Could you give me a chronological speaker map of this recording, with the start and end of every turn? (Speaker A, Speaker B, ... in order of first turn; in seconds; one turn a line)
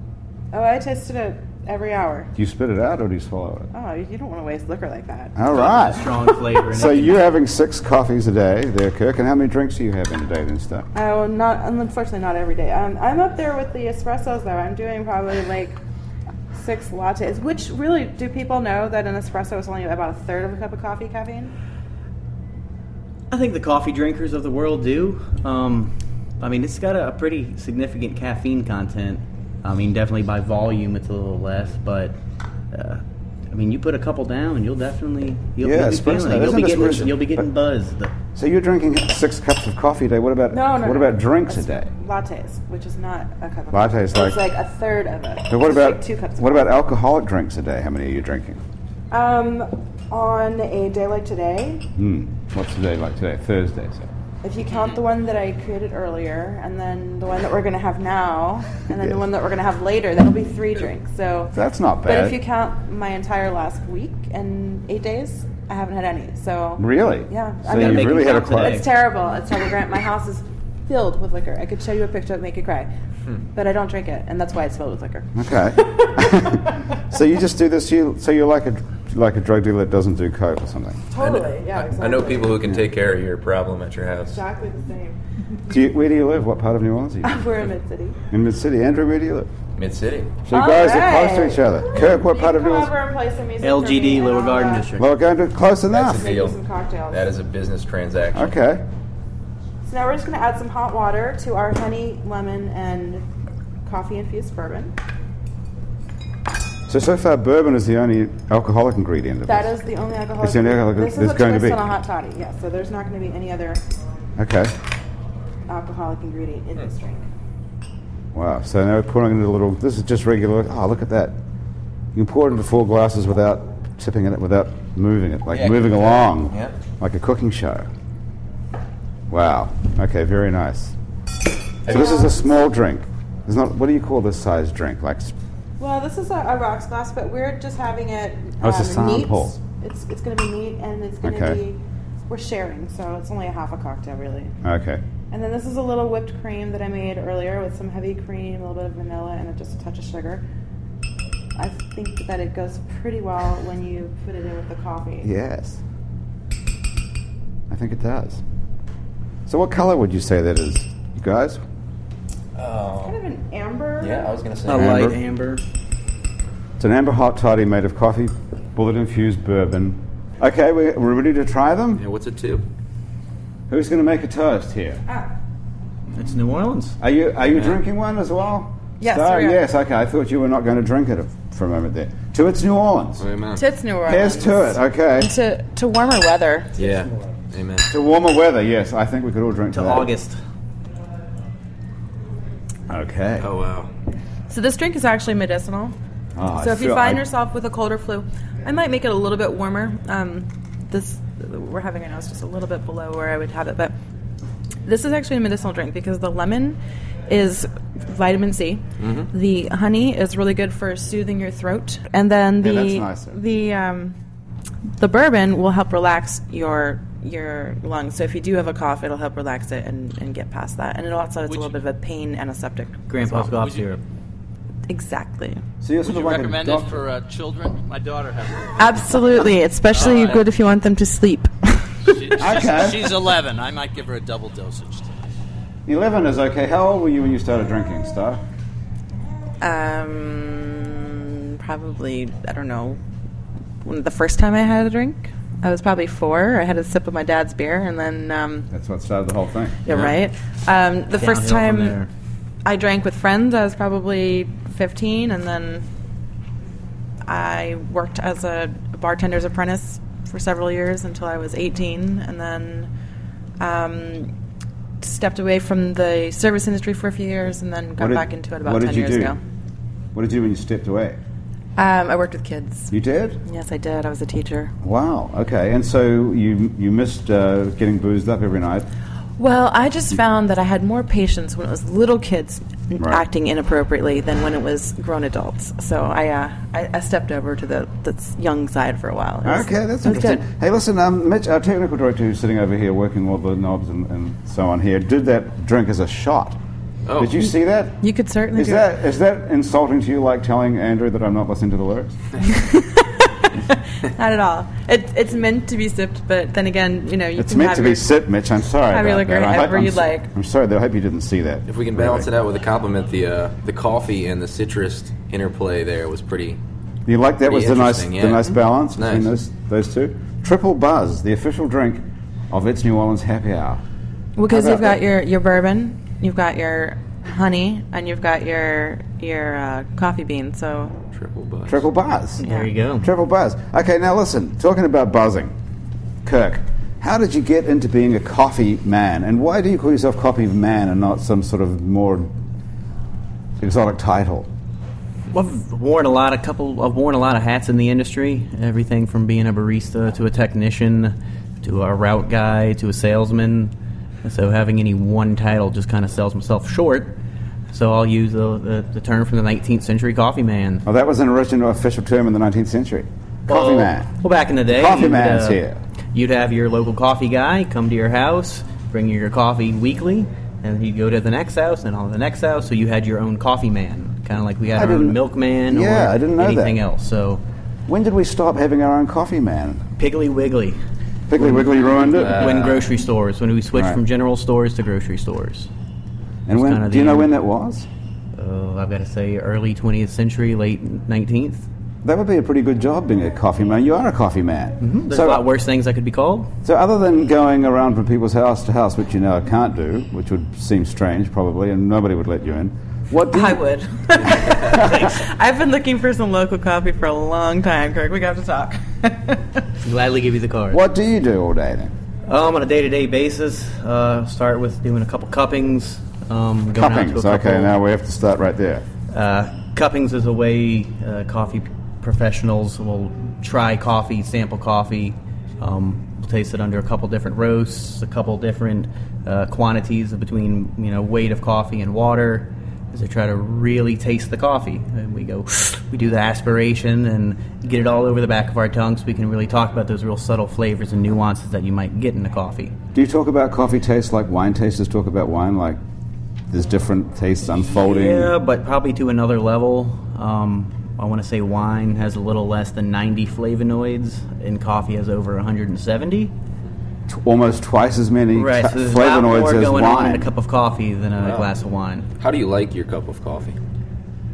Speaker A: 0.5-2.3
Speaker B: 2.4-3.7
Speaker A: 3.7-5.4
Speaker B: 5.3-10.9
Speaker C: 5.5-7.2
Speaker A: 10.9-15.8
Speaker A: 16.5-21.5
Speaker C: 23.3-32.2
Speaker C: 32.7-38.1
Speaker B: 35.6-37.5
Speaker B: 38.3-41.9
Speaker A: 40.5-46.7
Speaker B: 43.7-44.4
Speaker B: 45.5-48.6
Speaker A: 49.1-51.9
Speaker B: 52.0-54.1
Speaker A: 54.4-72.9
Speaker B: 61.5-62.4
Speaker B: 66.8-68.8
Speaker C: 67.7-68.9
Speaker A: 73.5-77.0
Speaker B: 75.3-81.0
Speaker A: 81.1-82.6
Speaker D: 81.2-84.4
Speaker A: 84.3-85.2
Speaker B: 85.7-87.5
Speaker A: 87.2-88.2
Speaker B: 88.3-89.5
Speaker D: 89.8-90.3
Speaker B: 90.4-92.9
Speaker A: 90.5-94.9
Speaker C: 93.6-95.1
Speaker B: 95.0-96.2
Speaker D: 95.9-96.6
Speaker A: 96.1-97.3
Speaker D: 97.1-98.5
Speaker B: 98.3-98.8
Speaker A: 99.8-103.2
Speaker A: 103.8-104.9
Speaker B: 106.9-109.7
Speaker A: 109.5-113.8
Speaker B: 110.4-111.9
Speaker B: 114.4-114.7
Speaker A: 115.7-117.2
Speaker B: 118.3-121.4
Speaker B: 122.1-127.9
Speaker D: 125.5-126.7
Speaker B: 129.3-130.9
Speaker B: 131.8-135.3
Speaker D: 131.9-132.2
Speaker A: 131.9-132.4
Speaker A: 135.8-144.5
Speaker B: 138.6-139.5
Speaker B: 141.2-141.6
Speaker B: 144.6-145.0
Speaker A: 145.3-150.4
Speaker A: 151.6-155.3
Speaker B: 155.2-155.8
Speaker B: 157.7-158.4
Speaker B: 159.5-161.6
Speaker D: 162.6-163.2
Speaker A: 163.0-164.4
Speaker D: 164.0-165.1
Speaker C: 164.7-165.6
Speaker B: 164.7-165.2
Speaker B: 166.8-172.0
Speaker D: 172.0-172.7
Speaker B: 173.7-175.0
Speaker C: 176.2-177.0
Speaker B: 177.0-183.2
Speaker A: 179.0-179.6
Speaker D: 183.2-183.6
Speaker A: 183.6-186.7
Speaker B: 184.0-185.3
Speaker D: 186.8-187.9
Speaker B: 187.9-190.1
Speaker C: 189.7-190.4
Speaker B: 192.9-193.5
Speaker D: 193.4-193.9
Speaker A: 194.5-195.9
Speaker B: 196.3-197.2
Speaker A: 196.6-203.9
Speaker A: 204.8-214.2
Speaker D: 209.0-209.3
Speaker B: 212.6-213.4
Speaker A: 215.0-223.5
Speaker E: 221.5-221.7
Speaker C: 223.1-224.0
Speaker E: 223.5-223.9
Speaker A: 224.9-225.6
Speaker B: 225.8-227.0
Speaker E: 226.0-229.0
Speaker A: 228.8-232.3
Speaker E: 229.9-230.4
Speaker E: 232.0-235.1
Speaker B: 232.4-233.1
Speaker B: 235.9-238.4
Speaker A: 239.6-243.0
Speaker A: 243.8-248.7
Speaker B: 248.7-249.8
Speaker A: 249.8-252.0
Speaker C: 251.2-252.1
Speaker A: 252.6-255.8
Speaker A: 257.2-262.9
Speaker A: 263.6-264.3
Speaker A: 265.0-269.4
Speaker B: 268.0-269.3
Speaker B: 270.1-271.2
Speaker A: 271.8-272.9
Speaker B: 272.9-273.4
Speaker A: 273.4-274.7
Speaker B: 274.8-278.9
Speaker A: 279.4-290.4
Speaker B: 289.4-296.6
Speaker D: 297.1-297.4
Speaker B: 297.1-298.0
Speaker A: 298.0-298.9
Speaker B: 298.5-302.1
Speaker A: 302.4-308.1
Speaker B: 307.4-312.3
Speaker A: 308.9-310.3
Speaker D: 311.7-316.6
Speaker B: 317.1-323.8
Speaker D: 317.4-319.3
Speaker A: 324.4-330.9
Speaker B: 324.5-325.0
Speaker D: 331.1-331.8
Speaker B: 331.7-332.5
Speaker C: 332.4-333.1
Speaker A: 332.4-332.7
Speaker B: 333.0-335.5
Speaker B: 336.2-342.3
Speaker B: 343.6-344.5
Speaker C: 345.3-353.7
Speaker C: 354.2-357.2
Speaker C: 357.7-360.8
Speaker B: 360.8-364.1
Speaker C: 363.5-365.6
Speaker B: 364.7-365.8
Speaker C: 366.1-377.4
Speaker B: 374.7-376.8
Speaker B: 377.9-379.8
Speaker C: 380.0-380.8
Speaker B: 381.3-382.7
Speaker C: 381.4-381.6
Speaker D: 381.9-382.9
Speaker C: 382.2-385.7
Speaker B: 383.7-384.0
Speaker B: 386.5-387.9
Speaker C: 386.5-387.3
Speaker C: 388.3-391.7
Speaker B: 392.0-395.4
Speaker C: 394.8-396.5
Speaker B: 396.6-403.6
Speaker A: 403.3-409.4
Speaker B: 404.2-405.0
Speaker C: 404.7-405.1
Speaker C: 409.8-410.8
Speaker B: 410.7-411.9
Speaker C: 412.3-417.7
Speaker B: 416.7-418.8
Speaker C: 419.1-442.8
Speaker B: 442.9-445.8
Speaker B: 446.5-448.3
Speaker C: 447.5-456.3
Speaker B: 457.1-460.3
Speaker C: 458.3-462.1
Speaker D: 461.2-461.5
Speaker D: 462.2-463.6